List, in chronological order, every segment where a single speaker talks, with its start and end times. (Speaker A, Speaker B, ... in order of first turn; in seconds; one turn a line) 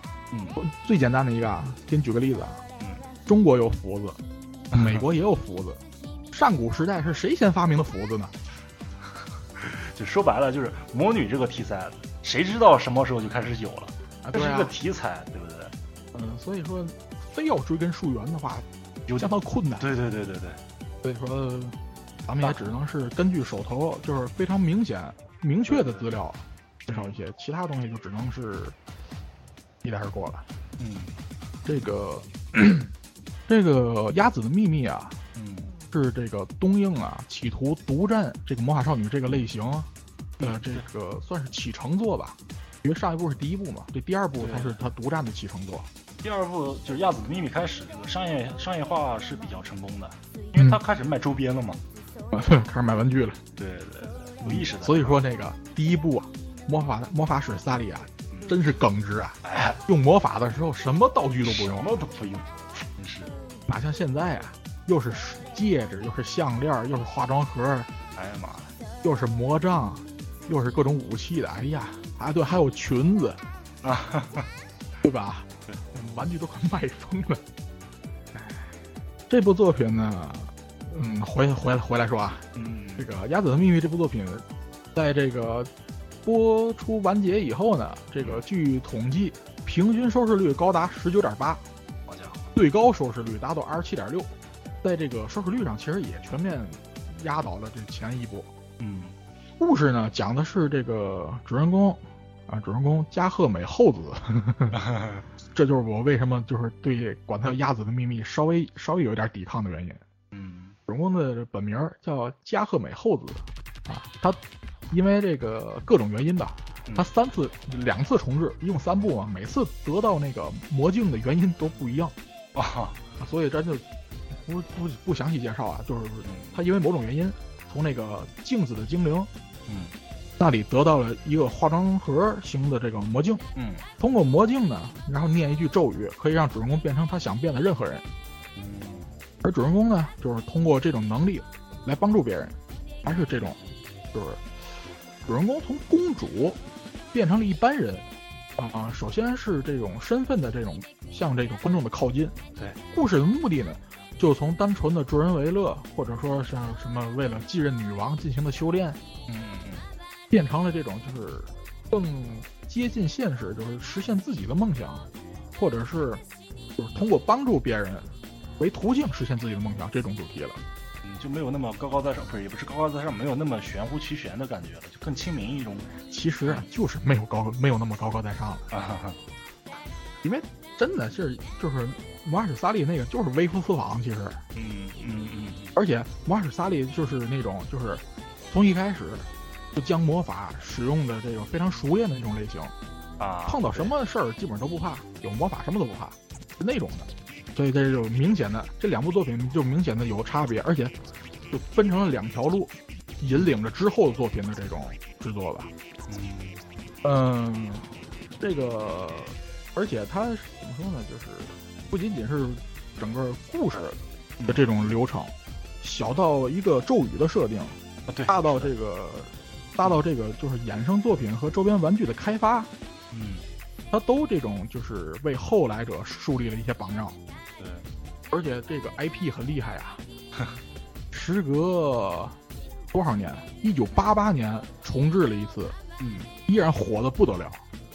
Speaker A: 0.3-0.6
Speaker B: 0.6-2.6
Speaker A: 2.8-3.1
Speaker B: 3.3-4.2
Speaker B: 4.7-5.8
Speaker A: 4.7-5.0
Speaker B: 6.3-8.3
Speaker A: 9.1-15.8
Speaker B: 14.2-14.7
Speaker B: 16.1-18.7
Speaker A: 19.1-20.6
Speaker B: 19.2-19.9
Speaker B: 21.0-28.8
Speaker A: 25.7-26.1
Speaker A: 26.9-27.2
Speaker B: 29.8-30.4
Speaker A: 30.8-31.1
Speaker B: 31.6-32.9
Speaker B: 33.5-35.2
Speaker A: 35.4-35.8
Speaker B: 35.9-39.9
Speaker A: 40.4-40.8
Speaker B: 40.4-45.9
Speaker A: 44.4-44.8
Speaker A: 46.2-51.8
Speaker B: 52.3-53.4
Speaker A: 53.6-55.2
Speaker B: 54.4-61.9
Speaker A: 58.3-58.6
Speaker A: 59.4-59.8
Speaker A: 61.4-63.4
Speaker B: 63.7-67.9
Speaker A: 68.2-68.8
Speaker B: 69.0-73.4
Speaker A: 73.8-74.5
Speaker B: 75.0-77.4
Speaker B: 79.3-85.7
Speaker A: 82.5-83.1
Speaker B: 86.2-91.6
Speaker A: 92.1-92.5
Speaker B: 92.5-94.3
Speaker B: 94.8-98.5
Speaker A: 98.8-99.2
Speaker B: 99.6-104.8
Speaker A: 104.7-105.2
Speaker B: 105.5-110.0
Speaker A: 110.3-110.8
Speaker B: 110.9-122.2
Speaker A: 122.5-123.0
Speaker B: 123.2-129.3
Speaker A: 126.2-126.6
Speaker A: 129.7-130.0
Speaker B: 130.4-133.4
Speaker A: 133.6-133.9
Speaker B: 134.0-138.1
Speaker A: 138.6-139.1
Speaker B: 139.4-143.6
Speaker A: 143.1-143.6
Speaker B: 144.1-144.5
Speaker B: 145.2-146.6
Speaker B: 147.1-152.4
Speaker B: 152.9-159.0
Speaker A: 159.3-159.9
Speaker B: 160.3-166.2
Speaker B: 166.8-170.6
Speaker A: 171.0-176.7
Speaker B: 176.1-178.7
Speaker A: 178.7-179.2
Speaker B: 180.2-184.4
Speaker A: 184.6-185.8
Speaker B: 185.8-192.7
Speaker A: 193.2-193.9
Speaker B: 193.5-201.0
Speaker B: 201.5-205.7
Speaker A: 206.1-206.6
Speaker B: 207.0-222.7
Speaker A: 214.4-214.7
Speaker A: 218.1-218.7
Speaker A: 223.1-223.5
Speaker B: 223.9-227.2
Speaker A: 227.6-227.9
Speaker B: 228.3-230.0
Speaker B: 231.1-232.4
Speaker B: 232.9-235.8
Speaker A: 236.0-236.3
Speaker B: 236.5-237.6